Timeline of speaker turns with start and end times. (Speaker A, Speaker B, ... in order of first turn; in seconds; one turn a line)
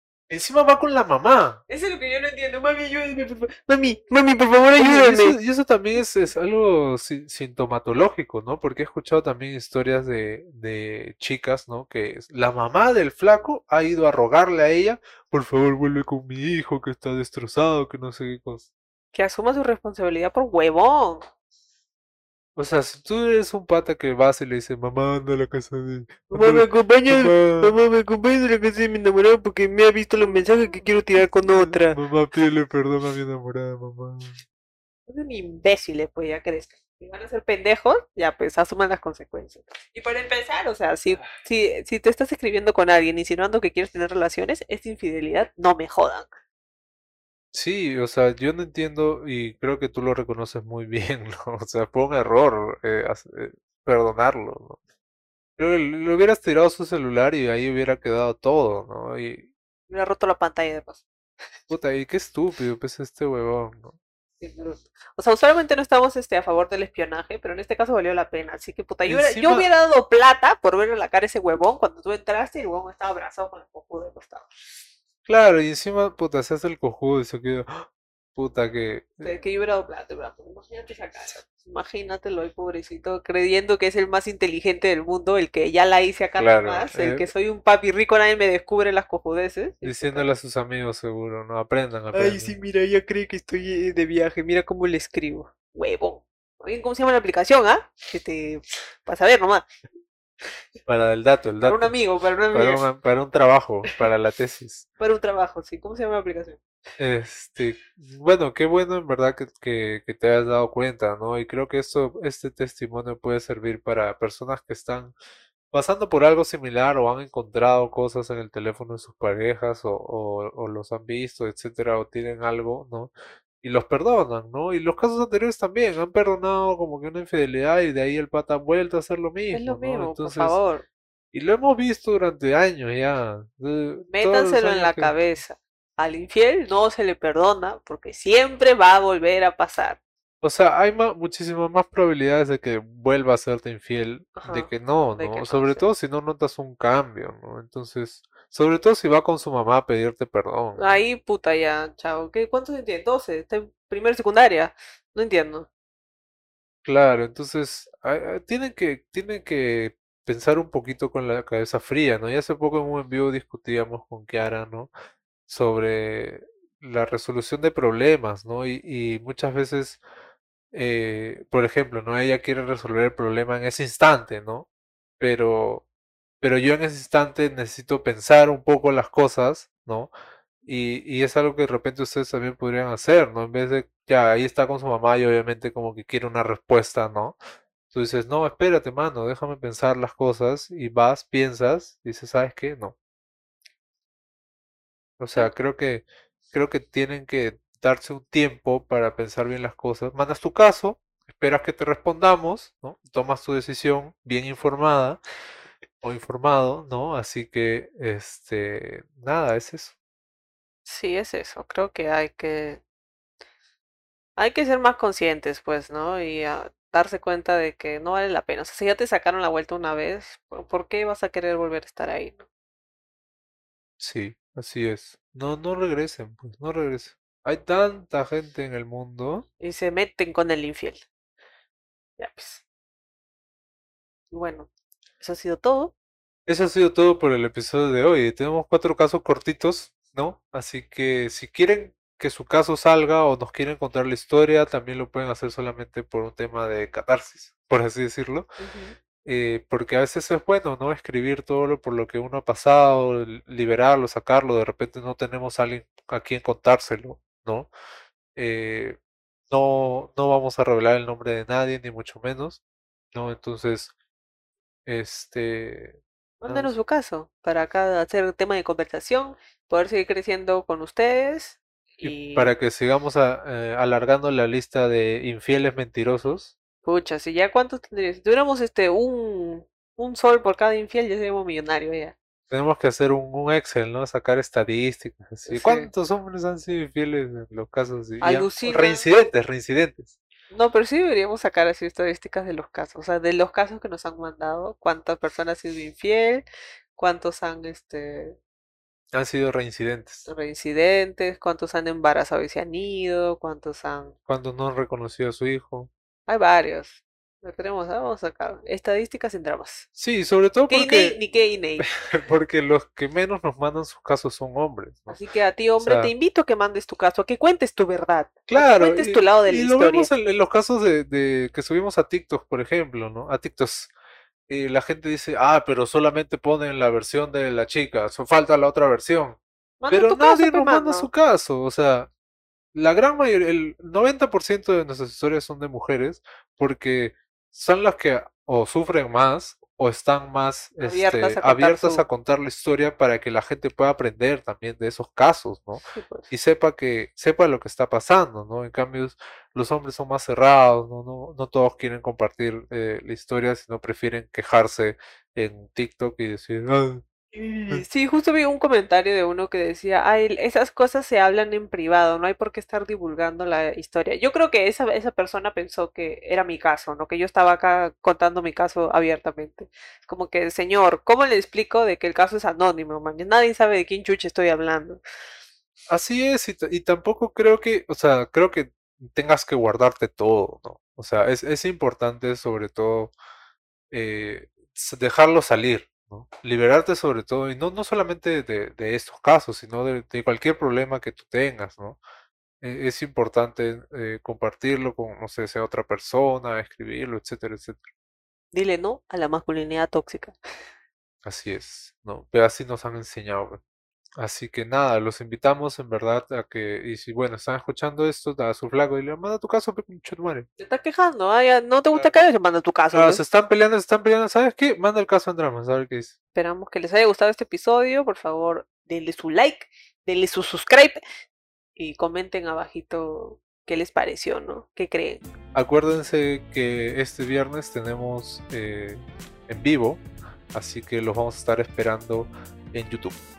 Speaker A: 0.3-1.6
Speaker B: 1.7-5.3
Speaker A: 4.8-18.7
Speaker B: 19.1-21.3
Speaker A: 22.6-27.7
Speaker B: 26.3-32.0
Speaker A: 31.4-34.4
Speaker B: 35.1-46.3
Speaker A: 47.5-54.8
Speaker A: 55.6-59.5
Speaker B: 59.9-61.0
Speaker A: 61.7-64.0
Speaker B: 64.4-74.5
Speaker A: 69.0-69.7
Speaker A: 75.2-79.3
Speaker B: 79.2-90.3
Speaker A: 86.4-87.3
Speaker A: 89.8-92.5
Speaker B: 92.1-99.7
Speaker A: 100.8-101.9
Speaker B: 101.6-102.8
Speaker A: 102.5-104.8
Speaker B: 105.0-106.6
Speaker A: 107.0-115.1
Speaker A: 115.7-130.6
Speaker B: 129.5-130.8
Speaker A: 131.3-135.2
Speaker B: 134.1-140.0
Speaker A: 140.4-151.0
Speaker B: 144.4-145.9
Speaker B: 150.8-155.7
Speaker A: 156.8-164.9
Speaker A: 165.5-170.0
Speaker A: 170.7-174.7
Speaker A: 175.2-175.8
Speaker A: 176.4-180.1
Speaker A: 180.7-187.4
Speaker A: 187.9-192.9
Speaker A: 195.2-205.2
Speaker A: 206.0-209.9
Speaker B: 210.8-212.8
Speaker B: 214.4-222.4
Speaker A: 224.0-229.4
Speaker B: 229.6-231.0
Speaker B: 232.2-232.6
Speaker B: 234.3-234.7
Speaker B: 235.2-235.9
Speaker A: 236.5-248.5
Speaker B: 248.6-248.9
Speaker A: 249.2-257.7
Speaker A: 258.4-259.0
Speaker A: 259.5-262.6
Speaker A: 263.1-263.9
Speaker A: 264.9-266.7
Speaker B: 266.4-272.5
Speaker A: 272.0-276.5
Speaker B: 276.8-282.1
Speaker A: 282.5-290.1
Speaker B: 285.5-285.9
Speaker B: 288.2-289.1
Speaker B: 290.5-298.4
Speaker A: 299.1-300.3
Speaker B: 300.3-304.1
Speaker A: 304.3-305.9
Speaker B: 306.3-309.9
Speaker A: 309.9-311.2
Speaker B: 310.7-311.9
Speaker A: 311.8-315.2
Speaker B: 315.1-320.1
Speaker A: 315.8-316.1
Speaker A: 318.5-323.9
Speaker A: 324.5-329.4
Speaker B: 329.8-331.1
Speaker A: 329.9-332.1
Speaker A: 332.7-357.0
Speaker B: 340.8-342.0
Speaker B: 345.8-346.3
Speaker B: 357.3-375.0
Speaker A: 375.9-383.1
Speaker A: 383.9-392.0
Speaker A: 392.6-397.9
Speaker B: 398.5-400.4
Speaker A: 401.2-403.6
Speaker A: 404.2-410.5
Speaker B: 410.6-413.2
Speaker A: 411.9-412.2
Speaker A: 412.9-416.1
Speaker B: 416.3-421.0
Speaker B: 421.8-425.2
Speaker A: 425.5-433.2